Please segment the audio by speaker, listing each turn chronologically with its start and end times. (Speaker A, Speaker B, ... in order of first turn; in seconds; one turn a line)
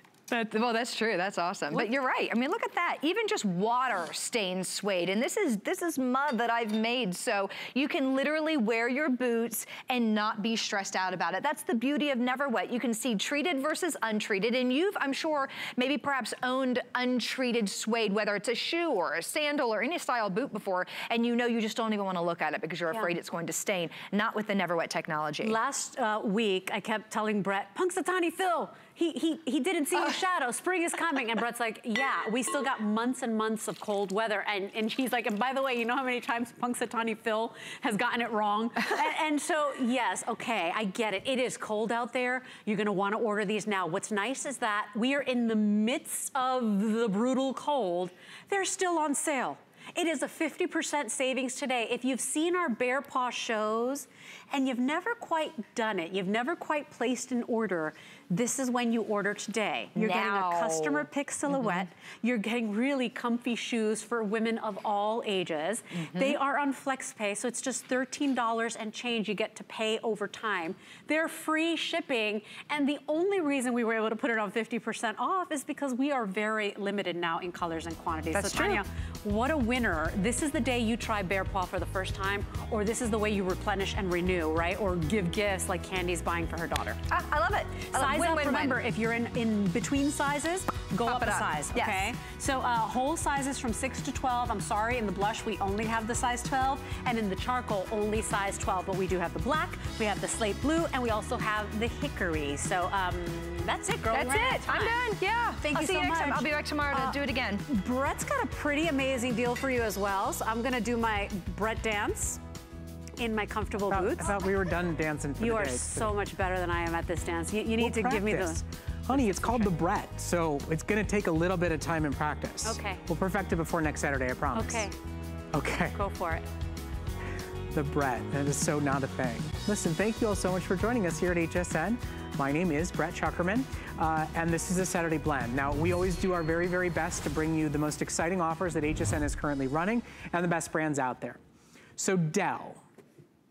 Speaker A: 0.3-25.6
Speaker B: 25.4-87.0
Speaker A: 59.9-61.9
Speaker A: 65.9-66.4
Speaker A: 78.3-78.8
Speaker A: 87.1-88.8
Speaker B: 87.9-105.1
Speaker A: 91.0-92.1
Speaker A: 104.1-107.6
Speaker B: 105.6-112.4
Speaker B: 113.2-114.4
Speaker C: 113.9-116.1
Speaker B: 115.4-119.7
Speaker C: 117.8-124.9
Speaker B: 122.6-123.0
Speaker B: 124.5-124.9
Speaker C: 125.5-126.0
Speaker B: 126.0-126.5
Speaker C: 127.7-141.4
Speaker C: 142.0-142.8